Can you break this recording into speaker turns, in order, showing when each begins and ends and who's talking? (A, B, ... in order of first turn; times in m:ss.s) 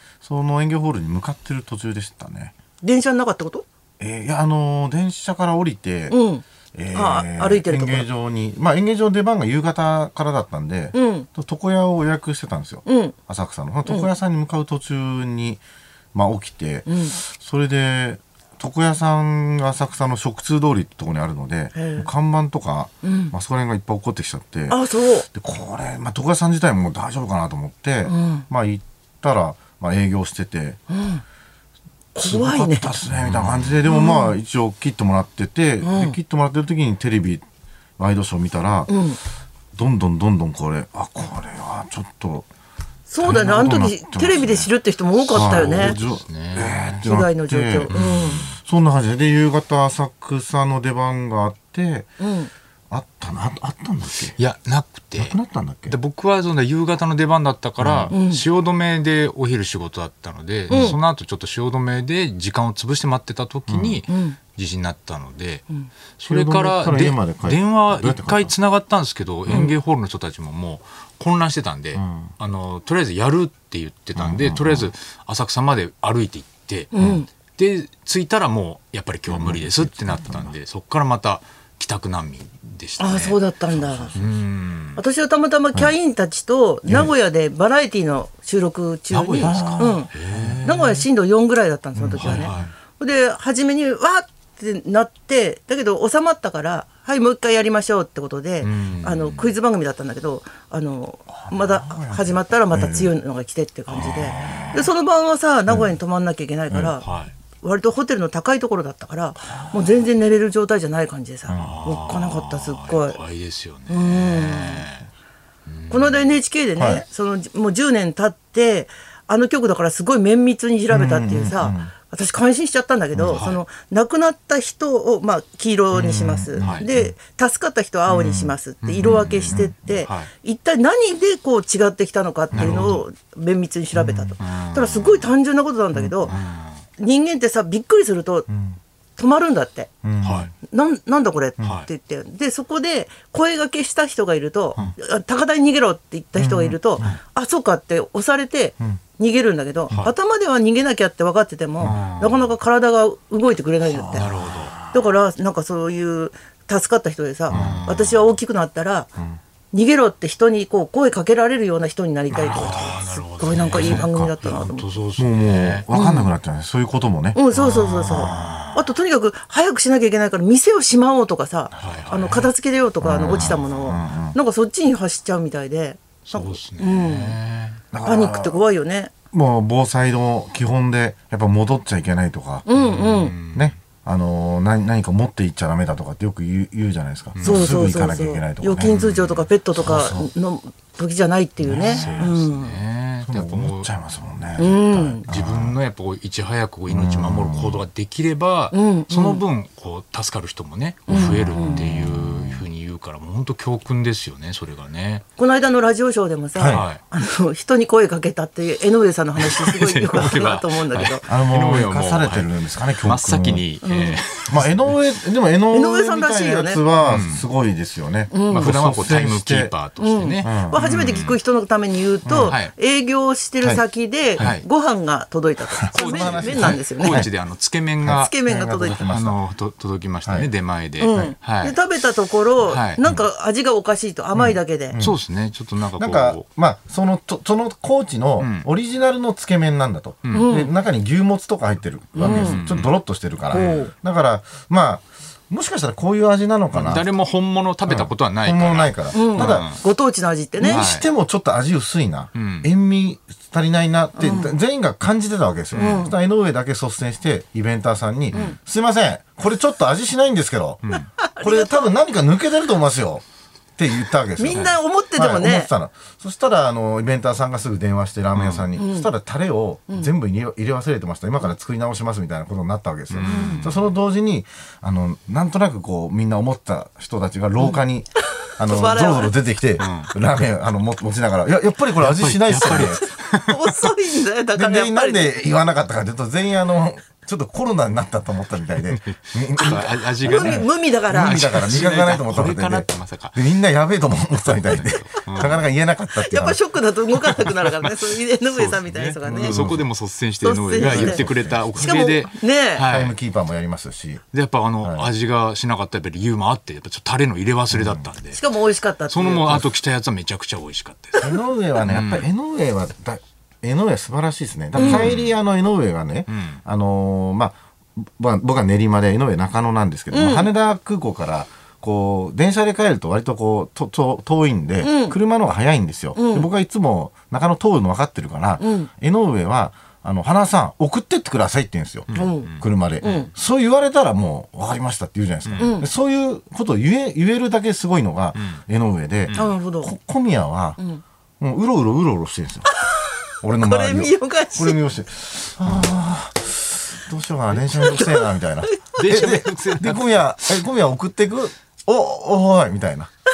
0:00.2-0:02.5 A
0:02.8-0:03.6 B
0:04.0-0:06.2 A
0:06.1-0:08.1 B
0:06.7-0:15.6 A
0:10.9-0:11.3 B
0:12.8-0:13.2 B
0:16.1-0:30.8 A
0:16.9-0:17.2 B
0:21.8-0:22.1 B
0:23.0-0:23.3 B
0:24.7-0:25.3 B
0:28.1-0:28.5 B
0:30.9-0:31.2 B
0:32.2-0:33.0 B
0:32.2-0:37.4 A
0:33.1-0:33.8 C
0:33.9-0:34.4 B
0:35.8-0:36.2 B
0:38.0-0:38.9 A
0:38.9-0:39.2 B
0:39.8-0:42.5 A
0:43.1-0:46.0 B
0:43.2-0:44.7 A
0:45.3-0:52.1 A
0:45.4-0:47.0 C
0:47.0-0:48.4 B
0:47.9-0:48.5 C
0:52.2-0:52.5 B
0:52.9-0:54.4 A
0:54.1-1:05.7 C
0:55.2-0:56.0 A
0:57.8-0:58.1 A
0:58.1-0:58.4 B
1:00.7-1:01.0 B
1:00.7-1:01.0 A
1:03.7-1:04.0 A
1:04.1-1:04.4 B
1:06.2-1:17.0 C
1:06.3-1:08.6 A
1:09.5-1:09.7 A
1:11.9-1:12.3 A
1:14.2-1:14.9 A
1:16.9-1:17.3 B
1:17.0-1:17.2 A
1:17.5-1:25.0 C
1:19.3-1:20.5 A
1:23.0-1:24.2 B
1:25.0-1:47.0 B
1:26.9-1:27.1 A
1:29.1-1:30.9 C
1:29.4-1:31.0 A
1:32.0-1:32.7 A
1:32.2-1:32.7 C
1:38.6-1:39.5 C
1:41.4-1:43.1 A
1:43.9-1:44.8 A
1:44.0-1:44.7 C
1:45.7-1:45.9 A
1:46.7-1:47.0 A
1:47.0-1:47.4 C
1:47.6-1:53.2 B
1:49.5-1:50.0 A
1:51.5-1:51.8 A
1:51.5-1:55.1 C
1:53.9-1:54.9 B
1:55.7-1:56.4 C
1:55.9-2:16.3 B
1:56.8-1:57.0 A
2:00.9-2:01.9 A
2:03.1-2:03.4 A
2:03.3-2:03.6 C
2:05.9-2:07.1 A
2:06.6-2:06.9 C
2:08.1-2:10.0 A
2:08.8-2:10.3 C
2:12.5-2:12.9 A
2:12.5-2:13.0 C
2:13.9-2:14.4 A
2:14.4-2:15.3 C
2:15.9-2:16.4 A
2:16.3-2:16.8 C
2:17.0-2:18.5 B
2:18.5-2:18.8 A
2:19.2-2:19.9 B
2:20.0-2:20.5 A
2:20.2-2:20.5 C
2:20.6-2:34.3 B
2:21.6-2:21.9 C
2:26.4-2:27.2 A
2:31.8-2:32.5 C
2:33.8-2:35.0 A
2:34.1-2:34.8 C
2:34.9-2:39.1 B
2:37.5-2:37.9 A
2:37.5-2:38.3 C
2:39.7-2:44.9 B
2:42.3-2:45.9 C
2:43.7-2:47.4 A
2:45.9-2:46.3 B
2:47.3-2:57.4 B
2:47.5-2:48.9 C
2:48.1-2:48.5 A
2:51.7-2:52.5 C
2:51.8-2:52.1 A
2:53.0-2:54.4 A
2:53.3-2:53.7 C
2:56.3-2:57.8 C
2:57.9-2:58.7 A
2:58.0-2:59.1 B
2:59.3-3:10.2 A
3:02.7-3:03.4 B
3:02.7-3:03.8 C
3:07.4-3:07.7 C
3:07.4-3:12.8 B
3:08.9-3:09.4 C
3:11.6-3:12.3 A
3:11.8-3:13.9 C
3:13.2-3:15.8 A
3:14.6-3:15.2 B
3:14.6-3:25.2 C
3:16.9-3:17.8 A
3:18.7-3:19.4 B
3:21.1-3:21.8 B
3:21.1-3:22.6 A
3:25.4-3:31.2 B
3:26.6-3:26.9 A
3:26.7-3:27.0 C
3:29.4-3:35.0 C
3:31.3-3:33.7 A
3:33.8-3:34.2 B
3:34.5-3:39.7 A
3:35.7-3:36.8 B
3:37.0-3:37.4 C
3:38.3-3:38.7 B
3:38.5-3:41.4 C
3:40.0-3:47.3 B
3:40.4-3:40.8 A
3:42.3-3:42.6 A
3:42.4-3:42.7 C
3:44.4-3:44.6 C
3:45.8-3:47.3 A
3:45.9-3:48.3 C
3:48.0-3:49.4 A
3:48.2-3:49.1 B
3:48.9-3:51.8 C
3:50.2-3:50.5 A
3:51.0-3:55.0 B
3:52.7-3:53.0 C
3:54.3-3:55.2 A
3:55.0-3:56.4 C
3:56.0-4:07.1 A
3:58.4-3:58.7 C
4:00.3-4:00.7 B
4:02.2-4:02.6 B
4:02.2-4:02.9 C
4:03.5-4:03.9 B
4:03.6-4:03.8 C
4:06.7-4:09.8 C
4:07.9-4:09.7 A
4:09.1-4:10.8 B
4:10.6-4:20.8 A
4:10.6-4:11.1 C
4:12.4-4:12.7 C
4:14.2-4:14.5 B
4:15.8-4:16.1 C
4:15.8-4:16.1 B
4:20.8-4:21.1 C
4:20.9-4:22.0 B
4:21.4-4:23.2 A
4:23.8-4:43.1 A
4:24.4-4:25.7 B
4:28.4-4:28.7 C
4:28.8-4:29.1 B
4:33.1-4:33.9 C
4:33.3-4:33.7 B
4:38.5-4:39.3 B
4:39.8-4:40.1 C
4:42.0-4:43.6 C
4:42.6-4:45.4 B
4:44.6-4:56.6 A
4:48.9-4:53.4 C
4:49.6-4:51.6 B
4:54.5-4:55.6 C
4:56.1-4:59.6 B
4:57.4-5:03.2 C
4:59.2-4:59.9 A
5:00.4-5:02.8 B
5:00.8-5:01.9 A
5:02.9-5:04.2 A
5:04.3-5:08.4 C
5:04.8-5:05.1 A
5:07.7-5:08.1 A
5:08.3-5:09.7 B
5:09.1-5:11.3 C
5:11.2-5:40.8 A
5:11.8-5:12.3 C
5:14.8-5:15.1 B
5:14.8-5:15.4 C
5:16.3-5:16.6 C
5:20.1-5:20.5 B
5:24.8-5:25.2 B
5:26.2-5:26.5 B
5:28.6-5:28.9 B
5:32.1-5:33.3 C
5:32.1-5:32.5 B
5:33.0-5:33.3 B
5:35.5-5:35.7 C
5:35.6-5:35.9 B
5:38.4-5:38.6 C
5:39.3-5:39.5 C
5:39.3-5:39.9 B
5:41.4-5:42.7 A
5:42.7-5:44.8 B
5:43.4-5:53.1 A
5:47.5-5:47.9 C
5:47.8-5:48.8 B
5:49.0-5:50.6 C